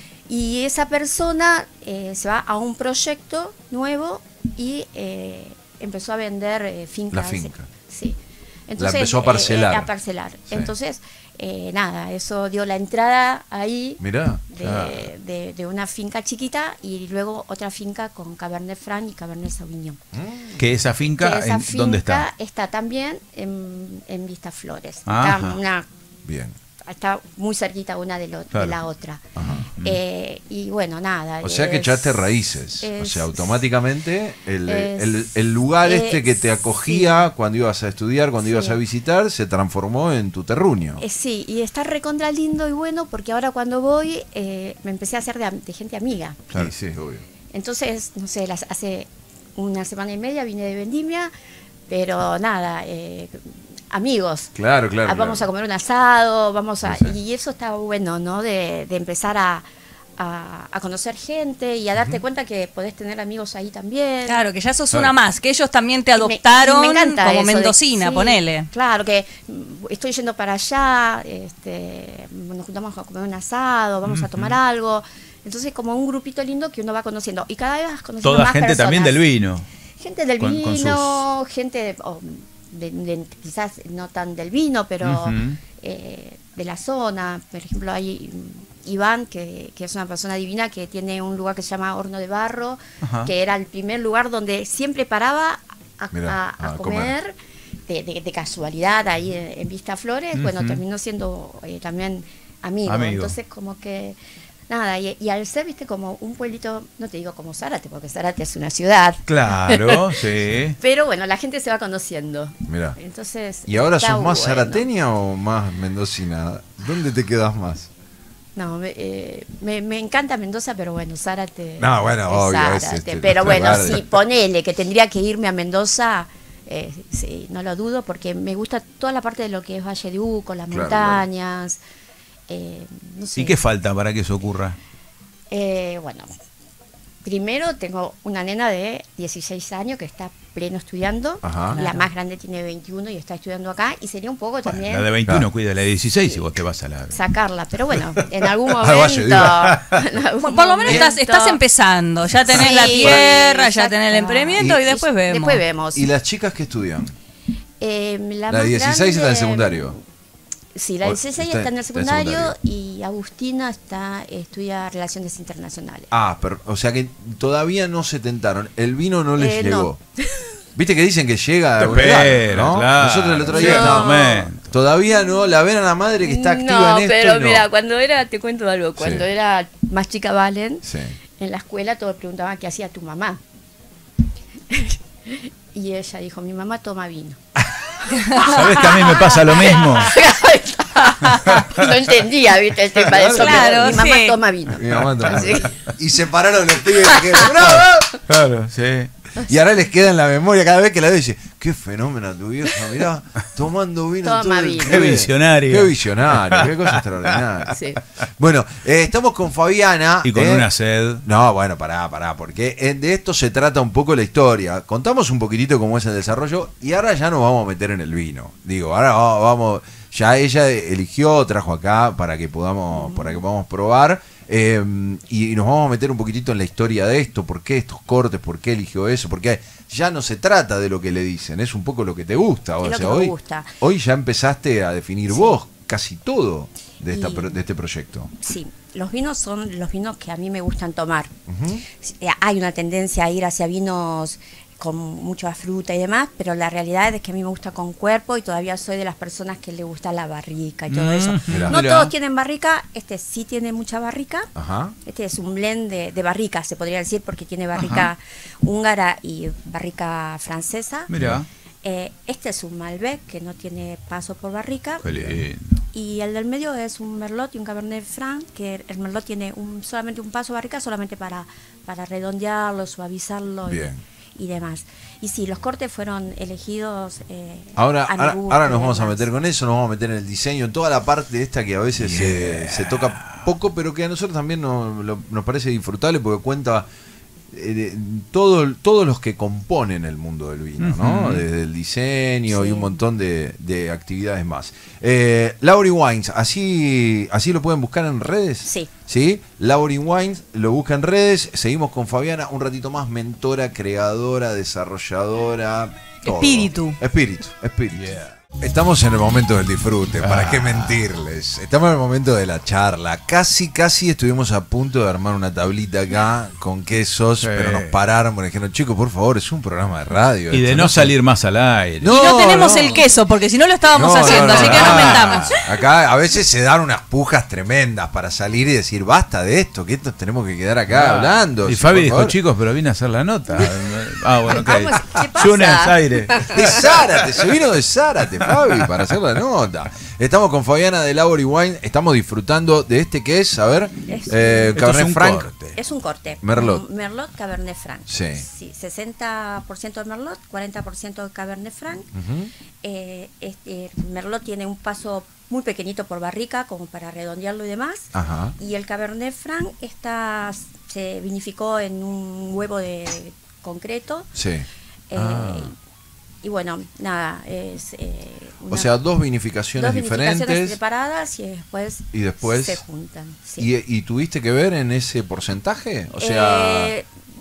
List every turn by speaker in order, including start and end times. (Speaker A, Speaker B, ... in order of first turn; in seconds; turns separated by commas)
Speaker A: 0.3-20.0, Speaker B: 7.1-7.7, Speaker B: 8.8-9.9, Speaker B: 14.0-14.4, Speaker C: 14.6-15.1, Speaker B: 20.1-20.6, Speaker C: 20.6-22.2, Speaker A: 21.2-25.9, Speaker C: 25.1-25.6, Speaker B: 26.2-26.5, Speaker A: 26.8-29.2, Speaker C: 28.5-28.8, Speaker B: 29.4-29.6, Speaker A: 29.8-32.3, Speaker B: 31.4-41.0, Speaker A: 32.8-33.6, Speaker A: 34.7-35.3, Speaker A: 35.8-37.2, Speaker A: 38.4-38.8, Speaker A: 41.0-46.7, Speaker B: 46.5-47.2, Speaker A: 47.5-51.3, Speaker A: 51.9-59.6, Speaker B: 54.5-55.5, Speaker B: 56.8-57.1, Speaker A: 60.2-64.4, Speaker D: 64.3-68.7, Speaker A: 66.1-79.2, Speaker C: 74.0-74.6, Speaker C: 78.2-79.6, Speaker A: 80.0-97.3, Speaker C: 80.4-81.2, Speaker C: 85.0-85.6, Speaker C: 93.0-93.3, Speaker B: 96.1-97.1, Speaker A: 97.9-104.2, Speaker C: 100.3-100.8, Speaker C: 102.8-103.3, Speaker A: 104.7-110.2, Speaker C: 109.3-110.8, Speaker A: 110.8-114.9, Speaker B: 112.7-113.0, Speaker B: 113.7-117.9, Speaker A: 118.5-131.8, Speaker B: 121.8-124.1, Speaker B: 130.7-131.2, Speaker A: 132.5-133.6, Speaker C: 133.3-134.8, Speaker A: 135.5-136.3, Speaker A: 137.2-145.1, Speaker B: 141.4-141.8, Speaker D: 141.7-142.1, Speaker C: 144.7-147.2, Speaker A: 147.1-151.6, Speaker B: 148.8-149.8, Speaker C: 149.5-150.0, Speaker D: 150.4-155.6, Speaker A: 152.5-156.1, Speaker B: 152.6-153.2, Speaker B: 154.6-154.8, Speaker B: 155.9-157.1, Speaker A: 157.8-160.0, Speaker B: 158.5-159.9, Speaker A: 160.7-166.1, Speaker B: 161.0-162.5, Speaker B: 166.1-170.0, Speaker A: 169.4-170.5, Speaker B: 170.7-177.7, Speaker C: 171.8-174.7, Speaker A: 173.5-174.5, Speaker A: 176.2-180.8, Speaker B: 179.0-179.2, Speaker B: 180.8-181.2, Speaker A: 181.4-183.4, Speaker A: 184.7-187.4, Speaker A: 188.0-195.7, Speaker C: 188.3-190.2, Speaker C: 191.5-191.9, Speaker B: 193.1-194.0, Speaker D: 193.3-194.4, Speaker B: 194.7-198.1, Speaker C: 194.9-195.8, Speaker A: 197.2-197.5, Speaker C: 197.5-199.1, Speaker B: 199.4-207.8, Speaker A: 204.2-205.1, Speaker C: 204.8-207.3, Speaker A: 207.7-208.0, Speaker B: 208.4-210.7, Speaker C: 210.2-211.2, Speaker B: 211.2-238.3, Speaker A: 222.9-223.4, Speaker A: 232.8-233.8, Speaker A: 235.3-235.6, Speaker A: 237.1-237.6, Speaker A: 238.4-241.3, Speaker B: 241.5-241.8, Speaker A: 241.9-254.5, Speaker C: 250.9-252.1, Speaker B: 251.5-251.8, Speaker B: 254.6-254.9, Speaker A: 255.0-261.1, Speaker C: 257.7-258.1, Speaker C: 261.1-261.4, Speaker B: 261.1-261.4, Speaker A: 261.8-265.0, Speaker B: 265.0-265.4, Speaker C: 265.0-265.8, Speaker A: 265.9-279.3, Speaker B: 273.7-274.0, Speaker B: 277.8-286.9, Speaker C: 282.0-283.5, Speaker B: 287.5-321.1, Speaker C: 290.8-291.4, Speaker A: 292.5-293.0, Speaker A: 298.6-298.9, Speaker D: 306.2-307.0, Speaker C: 307.9-308.3, Speaker C: 310.2-311.0, Speaker C: 317.4-317.9, Speaker C: 320.5-322.6, Speaker B: 322.0-323.1, Speaker D: 322.1-325.6, Speaker A: 322.7-323.0, Speaker B: 323.9-332.3, Speaker C: 324.3-325.7, Speaker C: 330.9-337.0, Speaker A: 334.4-336.8, Speaker B: 336.5-345.5, Speaker A: 344.1-344.7, Speaker C: 344.7-345.8, Speaker A: 345.7-352.1, Speaker B: 346.4-346.8, Speaker B: 348.1-348.4, Speaker B: 352.1-352.5, Speaker A: 352.8-364.3, Speaker B: 358.1-358.5, Speaker B: 364.3-365.7, Speaker A: 365.1-365.7, Speaker A: 366.4-368.9, Speaker B: 368.7-370.8, Speaker A: 369.8-373.7, Speaker B: 372.1-372.8, Speaker B: 373.6-376.9, Speaker A: 376.1-377.1